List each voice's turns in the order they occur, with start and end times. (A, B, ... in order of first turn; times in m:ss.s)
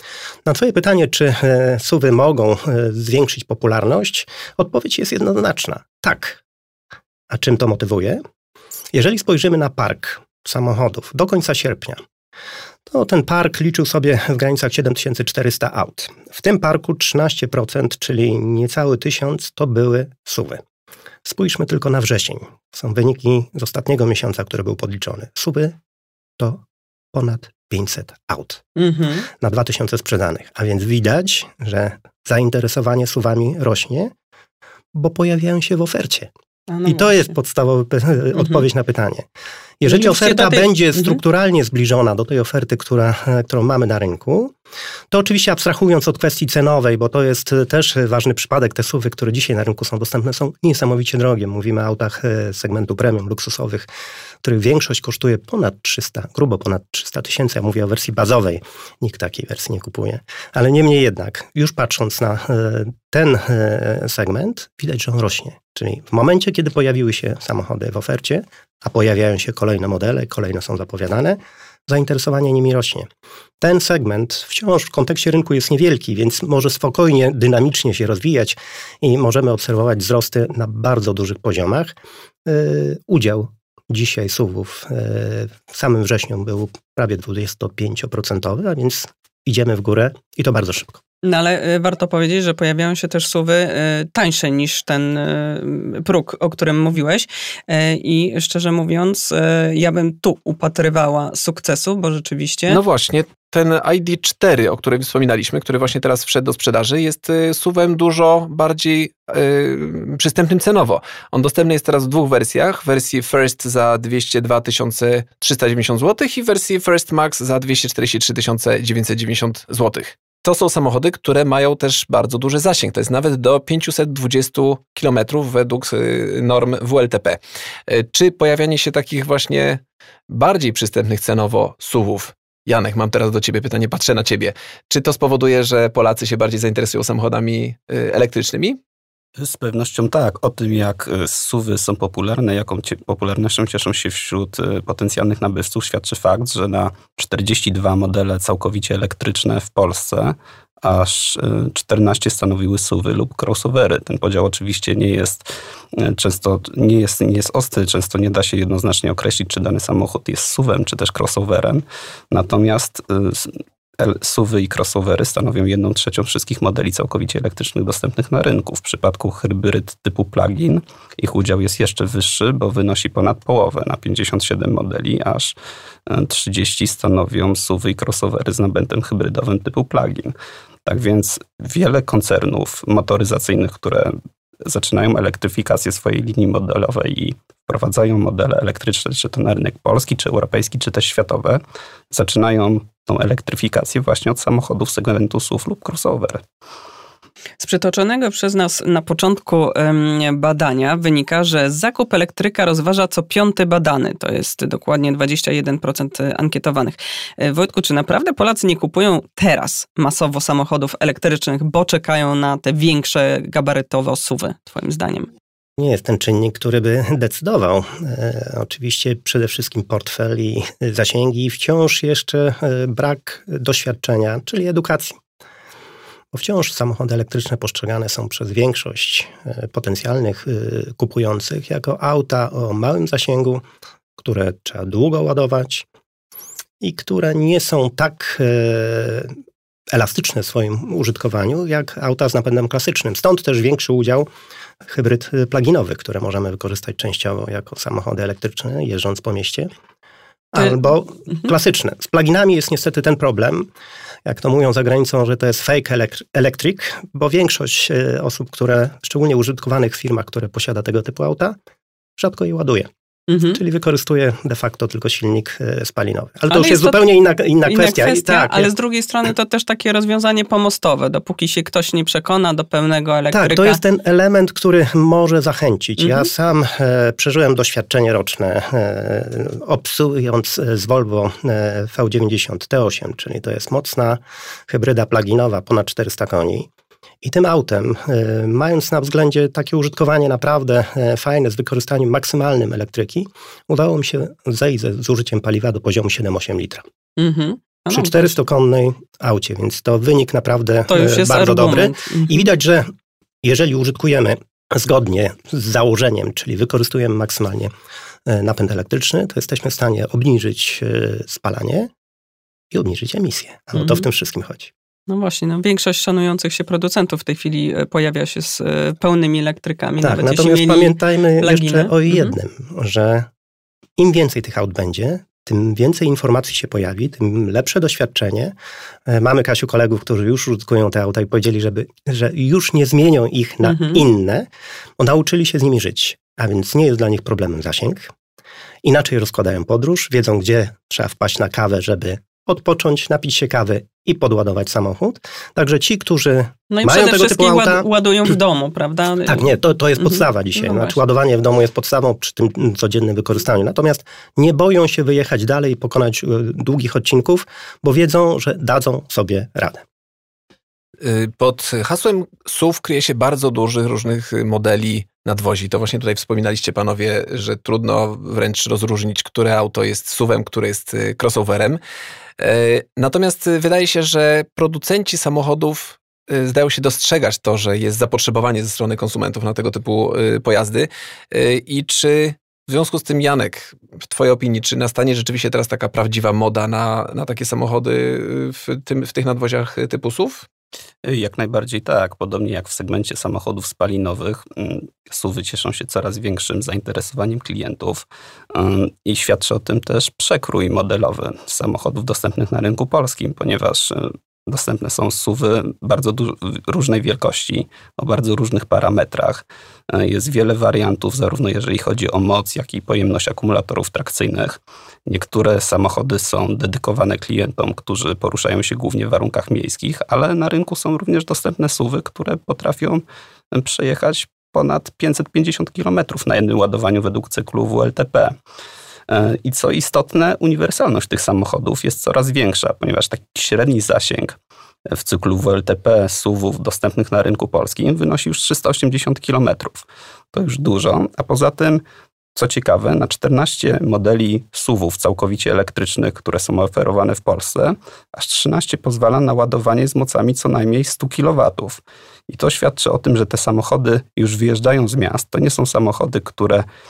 0:00.4-0:06.4 A
0:07.3-0:08.2 A
0:08.9-0:12.0 A
0:12.9-0:20.6 A
0:21.2-0:25.8 A
0:26.4-0:28.6 A
0:28.8-0:29.3 B
0:29.3-0:34.1 A
0:34.9-0:36.3 A
0:36.7-0:37.2 B
0:36.8-0:39.3 A
0:39.8-0:44.5 A
0:39.9-0:41.2 B
0:45.1-0:53.9 A
0:54.4-1:13.1 A
1:13.6-1:31.0 A
1:31.2-1:42.8 B
1:42.7-2:18.8 C
2:19.4-2:55.5 D
2:56.1-3:00.4 D
3:00.9-3:04.2 D
3:04.7-3:16.4 D
3:17.6-3:35.3 B
3:35.8-3:45.2 A
3:46.3-3:53.6 A
3:54.2-3:55.8 A
3:56.8-3:59.3 A
3:59.9-4:04.3 A
4:04.8-4:09.7 A
4:10.5-4:13.7 A
4:14.2-4:21.6 A
4:22.2-4:22.9 A
4:23.3-4:23.6 B
4:23.4-4:28.7 A
4:26.5-4:27.0 B
4:27.6-4:33.8 B
4:33.3-4:46.7 A
4:47.2-4:56.8 A
4:57.2-4:58.3 B
4:57.9-5:02.9 A
5:00.9-5:02.4 B
5:03.4-5:07.7 A
5:08.3-5:11.9 A
5:12.7-5:14.7 A
5:13.7-5:14.0 B
5:15.1-5:22.4 B
5:20.0-5:23.3 A
5:24.0-5:28.6 A
5:29.1-5:34.5 A
5:33.6-5:34.0 B
5:35.0-5:38.1 A
5:38.8-5:47.9 A
5:46.7-5:51.0 B
5:49.3-5:59.8 A
6:01.0-6:11.8 C
6:12.4-6:30.5 C
6:31.0-7:08.4 D
7:09.1-7:14.4 D
7:14.9-7:21.8 D
7:22.4-7:36.6 D